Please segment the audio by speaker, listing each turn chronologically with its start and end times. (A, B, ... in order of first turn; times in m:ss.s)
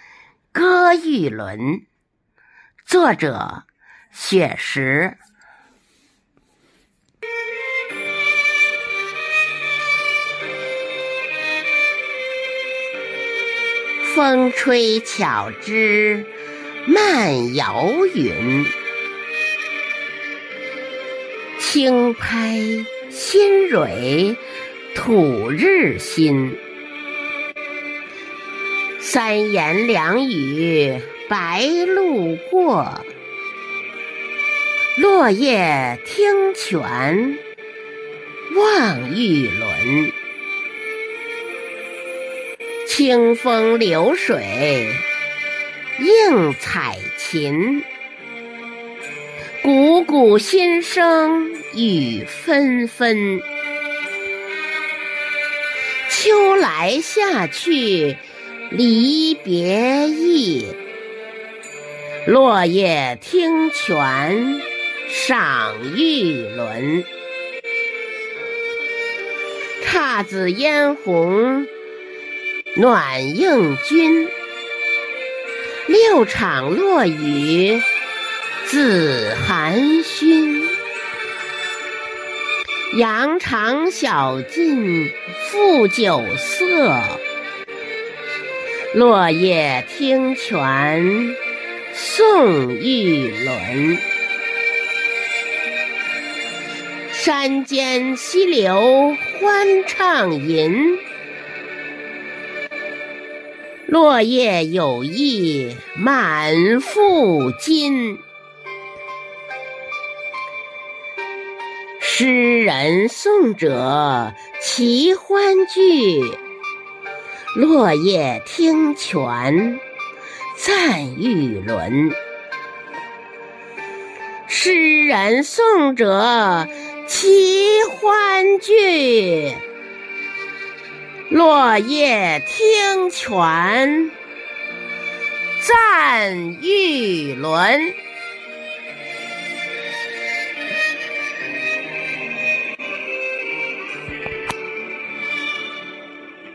0:00.5-0:01.8 A
0:02.9-0:05.2 A
0:14.0-0:16.3 A
0:16.8-0:18.7 A
0:21.6-0:24.4 A
0:24.9-0:26.6 A
0:29.0-0:33.1 A
0:35.0-0:37.4 A
0:38.5-0:40.1 A
0:42.8-0:45.0 A
0:46.0-0:47.9 A
0:49.6-0:53.4 A
0:56.1-1:00.8 A
1:02.2-1:07.1 A
1:09.8-1:11.7 A
1:12.7-1:14.3 A
1:15.8-1:17.9 A
1:18.6-1:20.8 A
1:22.9-1:27.2 A
1:28.9-1:31.4 A
1:31.9-1:34.0 A
1:37.1-1:41.0 A
1:43.9-1:48.2 A
1:52.0-1:56.4 A
1:57.5-1:59.8 A
2:00.5-2:02.2 A
2:04.5-2:09.6 A
2:11.3-2:14.1 A
2:15.6-2:18.0 A